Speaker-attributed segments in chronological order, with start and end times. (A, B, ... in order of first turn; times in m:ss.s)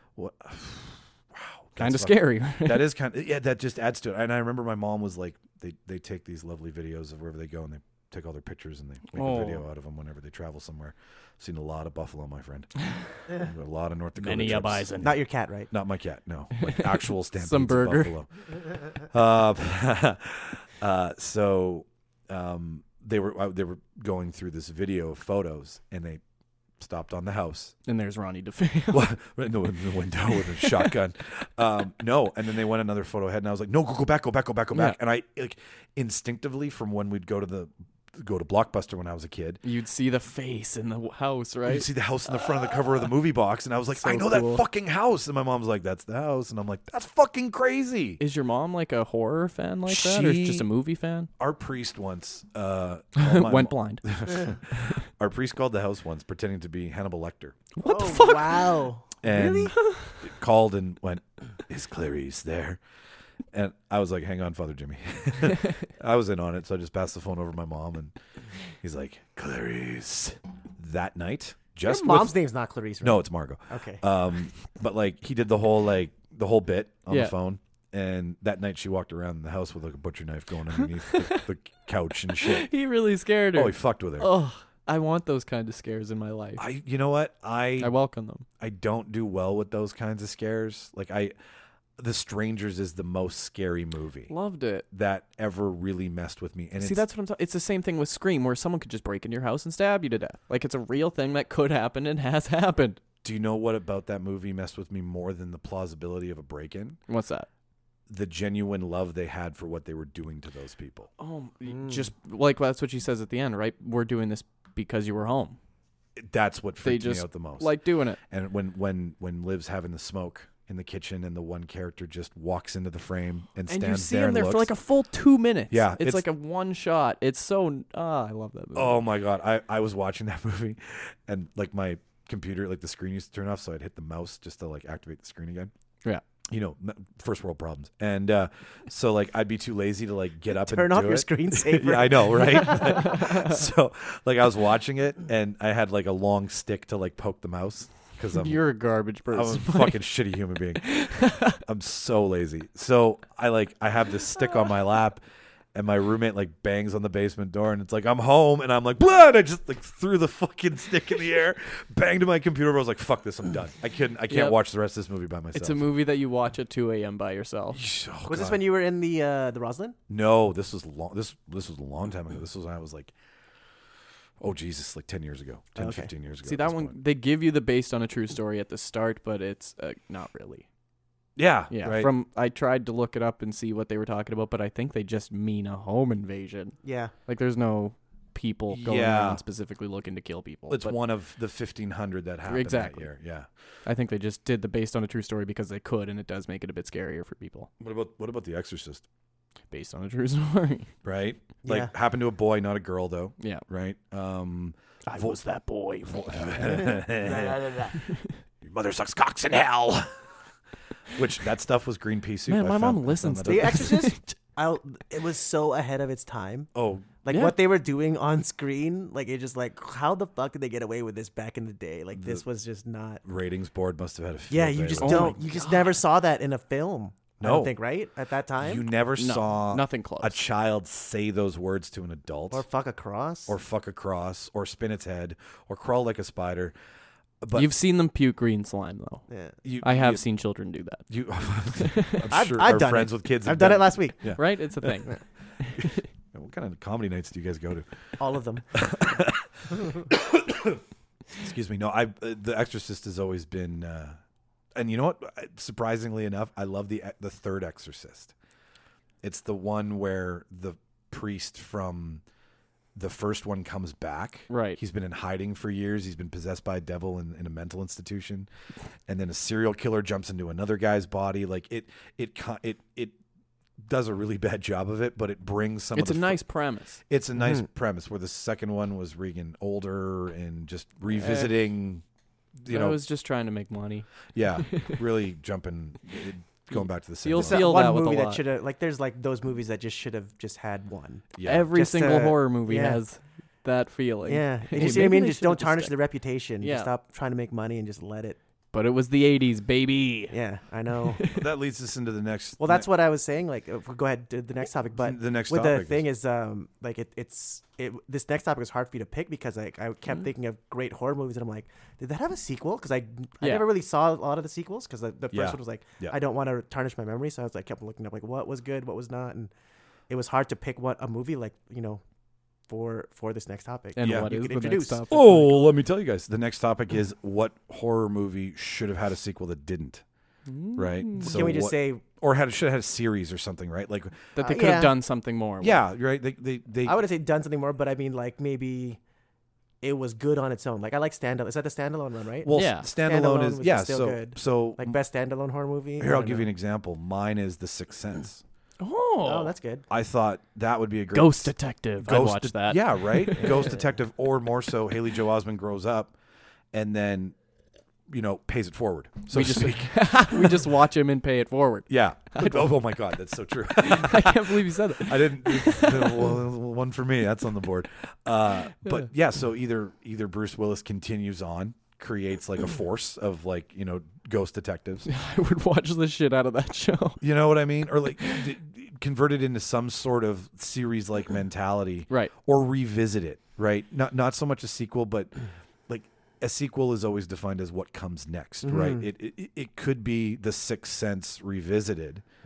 0:00.2-0:14.9 A
0:01.8-0:02.9 B
0:09.1-0:09.6 B
0:14.2-0:15.2 B
0:15.0-0:15.7 C
0:15.7-0:26.2 A
0:16.6-0:18.1 B
0:26.8-0:27.7 A
0:27.8-0:29.1 B
0:28.9-0:39.6 A
0:30.4-0:30.9 B
0:39.6-0:41.9 B
0:41.7-0:48.2 A
0:44.0-0:44.6 B
0:48.2-0:51.3 B
0:49.9-0:50.6 A
0:51.4-0:57.7 A
0:53.2-0:54.2 B
0:57.8-0:58.8 B
0:57.8-0:59.7 C
0:59.2-1:02.8 A
0:59.8-1:00.2 B
1:03.5-1:08.1 A
1:08.8-1:12.4 A
1:11.8-1:14.0 C
1:13.0-1:22.7 A
1:20.8-1:21.4 B
1:22.3-1:26.6 B
1:23.5-1:24.3 A
1:26.6-1:27.9 A
1:27.8-1:28.4 B
1:28.6-1:31.3 A
1:32.0-1:34.3 A
1:34.3-1:34.8 B
1:34.9-1:37.0 A
1:36.8-1:43.0 B
1:43.2-1:47.0 A
1:47.1-1:47.5 B
1:48.1-1:51.1 A
1:51.2-1:55.6 B
1:56.2-1:57.7 A
1:56.8-1:58.2 B
1:58.3-2:04.7 A
2:03.7-2:09.0 B
2:05.7-2:06.2 A
2:08.7-2:15.7 A
2:16.5-2:28.6 A
2:20.5-2:23.1 C
2:23.0-2:23.6 B
2:28.3-2:30.0 B
2:29.3-2:35.2 A
2:30.8-2:31.6 B
2:35.7-2:45.8 A
2:44.3-2:44.6 B
2:45.5-2:47.8 B
2:47.7-2:48.6 A
2:48.3-2:50.0 C
2:50.1-2:53.1 A
2:54.4-2:56.9 A
2:55.8-2:56.1 C
2:56.4-3:00.6 B
3:01.4-3:02.1 A
3:01.7-3:11.0 B
3:06.8-3:07.1 C
3:08.7-3:09.4 A
3:10.7-3:13.5 A
3:12.4-3:13.1 B
3:13.8-3:17.7 B
3:17.8-3:19.0 A
3:19.7-3:20.9 B
3:21.0-3:25.4 A
3:21.6-3:21.9 C
3:25.0-3:28.3 B
3:26.1-3:27.9 A
3:26.8-3:27.8 C
3:28.6-3:30.2 A
3:31.1-3:34.0 A
3:32.5-3:34.2 B
3:33.4-3:36.7 C
3:36.7-3:37.1 A
3:37.2-3:43.2 C
3:37.3-3:37.6 B
3:42.1-3:42.4 A
3:43.2-3:45.4 A
3:44.5-3:48.8 C
3:45.0-3:46.0 B
3:47.4-3:47.7 A
3:48.6-3:52.6 A
3:49.2-3:50.4 B
3:52.5-3:53.5 C
3:53.5-3:56.7 A
3:57.4-3:57.7 A
3:57.5-3:59.2 B
3:59.3-3:59.6 C
3:59.6-4:00.2 A
3:59.8-4:01.0 B
4:01.1-4:05.0 A
4:01.8-4:02.3 B
4:02.3-4:04.2 C
4:04.3-4:06.0 B
4:05.8-4:07.8 A
4:08.2-4:08.6 C
4:08.7-4:10.8 A
4:11.4-4:14.2 A
4:14.8-4:18.3 A
4:19.2-4:22.2 A
4:22.9-4:28.5 A
4:24.5-4:24.8 B
4:29.1-4:33.1 A
4:33.8-4:36.4 A
4:35.9-4:37.0 B
4:37.1-4:42.0 A
4:41.1-4:41.5 B
4:42.6-4:43.0 A
4:42.7-4:45.0 B
4:44.3-4:47.6 A
4:47.2-4:48.4 B
4:47.4-4:53.0 C
4:51.4-4:51.7 A
4:51.4-4:55.9 B
4:54.3-4:58.4 C
4:56.6-4:56.9 B
4:58.7-5:00.4 B
5:00.3-5:01.2 C
5:01.0-5:01.4 B
5:01.3-5:02.9 A
5:02.6-5:19.5 C
5:05.0-5:06.0 A
5:13.4-5:13.6 B
5:15.3-5:16.2 A
5:20.1-5:22.0 C
5:22.7-5:25.1 C
5:24.0-5:25.7 B
5:24.0-5:24.3 A
5:25.1-5:30.0 A
5:30.4-5:31.5 B
5:30.7-5:34.3 A
5:31.2-5:32.0 C
5:34.4-5:35.8 B
5:34.4-5:35.0 C
5:35.6-5:37.0 A
5:36.8-5:39.0 C
5:39.8-5:46.5 C
5:42.4-5:45.0 A
5:42.5-5:42.9 B
5:46.0-5:48.4 A
5:48.8-5:49.5 B
5:49.2-5:49.8 C
5:49.9-5:56.1 A
5:51.1-5:53.8 B
5:56.7-5:57.3 A
5:58.1-5:59.9 A
5:59.3-6:02.7 B
6:01.9-6:15.1 A
6:03.8-6:06.4 B
6:15.0-6:17.2 B
6:17.2-6:25.4 A
6:25.9-6:32.2 A
6:28.6-6:29.0 C